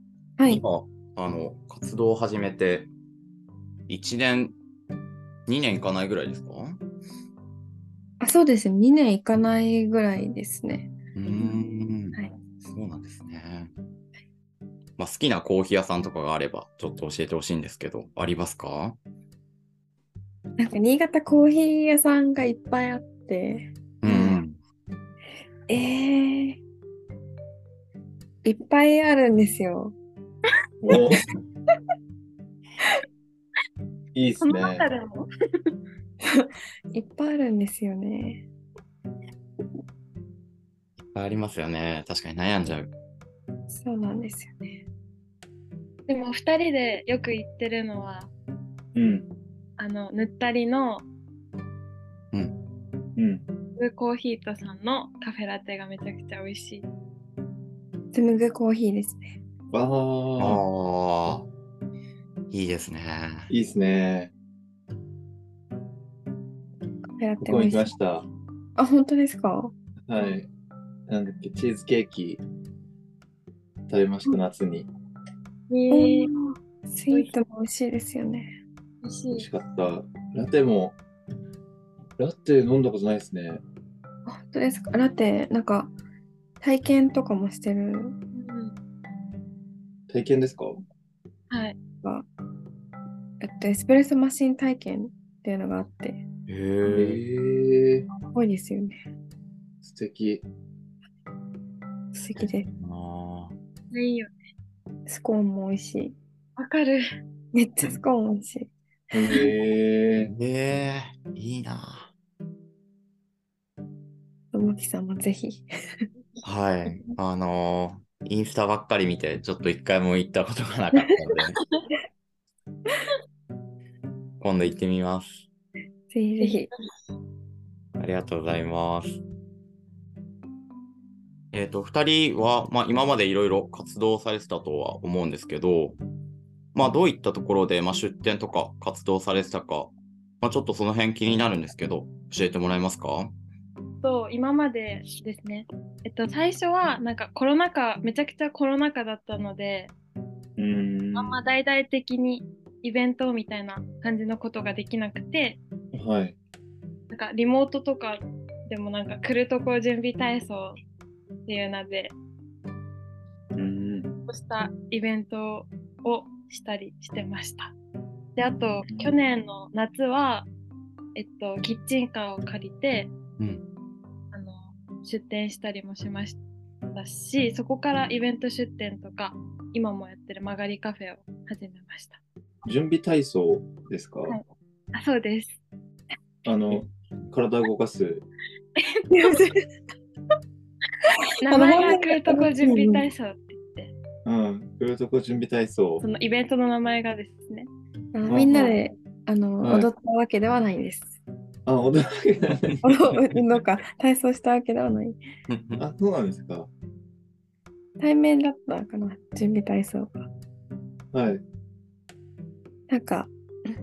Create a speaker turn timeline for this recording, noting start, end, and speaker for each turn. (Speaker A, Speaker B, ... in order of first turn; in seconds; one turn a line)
Speaker A: 0.4-0.6
Speaker B: 0.5-2.9
Speaker B: 3.9-4.6
Speaker B: 5.5-6.8
Speaker A: 8.2-12.3
Speaker B: 11.2-13.7
Speaker B: 15.0-19.0
Speaker A: 20.6-24.4
Speaker B: 24.0-24.6
Speaker A: 25.7-26.6
Speaker A: 28.4-29.9
Speaker C: 30.8-31.3
Speaker C: 34.1-34.9
Speaker D: 34.4-35.7
Speaker A: 36.2-38.4
Speaker B: 41.1-42.9
Speaker A: 43.7-44.8
Speaker D: 46.1-48.3
Speaker C: 49.0-49.3
Speaker D: 49.8-51.1
Speaker C: 53.2-53.4
Speaker D: 53.8-56.9
Speaker A: 58.1-59.3
Speaker C: 59.7-60.6
Speaker B: 60.4-61.5
Speaker B: 62.5-63.5
Speaker C: 63.5-64.3
Speaker A: 67.2-67.9
Speaker C: 67.4-68.3
Speaker A: 68.8-69.7
Speaker C: 70.1-70.5
Speaker C: 71.1-72.4
Speaker C: 73.9-74.9
Speaker D: 75.7-76.3
Speaker A: 75.9-78.5
Speaker D: 79.0-79.5
Speaker C: 79.3-81.0
Speaker C: 82.2-83.6
Speaker A: 84.3-85.9
Speaker A: 86.6-88.2
Speaker D: 88.3-88.8
Speaker C: 90.1-90.8
Speaker D: 91.5-91.8
Speaker A: 93.4-96.2
Speaker B: 96.5-97.2
Speaker C: 96.9-98.1
Speaker A: 98.3-99.0
Speaker C: 99.8-100.4
Speaker A: 102.1-102.7
Speaker B: 102.4-103.5
Speaker D: 103.9-104.3
Speaker A: 105.1-106.2
Speaker D: 106.6-107.0
Speaker A: 107.5-109.5
Speaker C: 109.1-110.3
Speaker B: 110.2-112.1
Speaker A: 114.5-115.7
Speaker B: 116.4-121.6
Speaker B: 124.4-125.5
Speaker A: 126.1-126.7
Speaker B: 128.0-129.2
Speaker B: 131.5-136.0
Speaker B: 136.7-143.3
Speaker D: 144.0-149.9
Speaker C: 150.6-151.4
Speaker D: 151.2-155.6
Speaker C: 155.9-156.4
Speaker D: 157.1-160.8
Speaker D: 161.5-162.2
Speaker C: 163.6-164.1
Speaker D: 164.3-167.8
Speaker D: 168.4-170.5
Speaker C: 168.9-169.2
Speaker D: 171.2-173.1
Speaker D: 174.3-176.4
Speaker D: 176.9-182.2
Speaker C: 182.7-184.4
Speaker D: 184.3-185.6
Speaker C: 186.4-188.2
Speaker D: 188.8-189.0
Speaker A: 189.1-189.7
Speaker D: 191.4-193.9
Speaker A: 191.5-193.1
Speaker C: 194.2-196.0
Speaker D: 196.0-197.7
Speaker A: 198.1-201.1
Speaker C: 198.3-198.8
Speaker C: 199.6-199.9
Speaker C: 201.7-203.4
Speaker A: 202.8-205.2
Speaker B: 205.5-205.8
Speaker C: 205.8-206.7
Speaker A: 208.0-210.3
Speaker C: 211.1-211.4
Speaker A: 212.9-213.3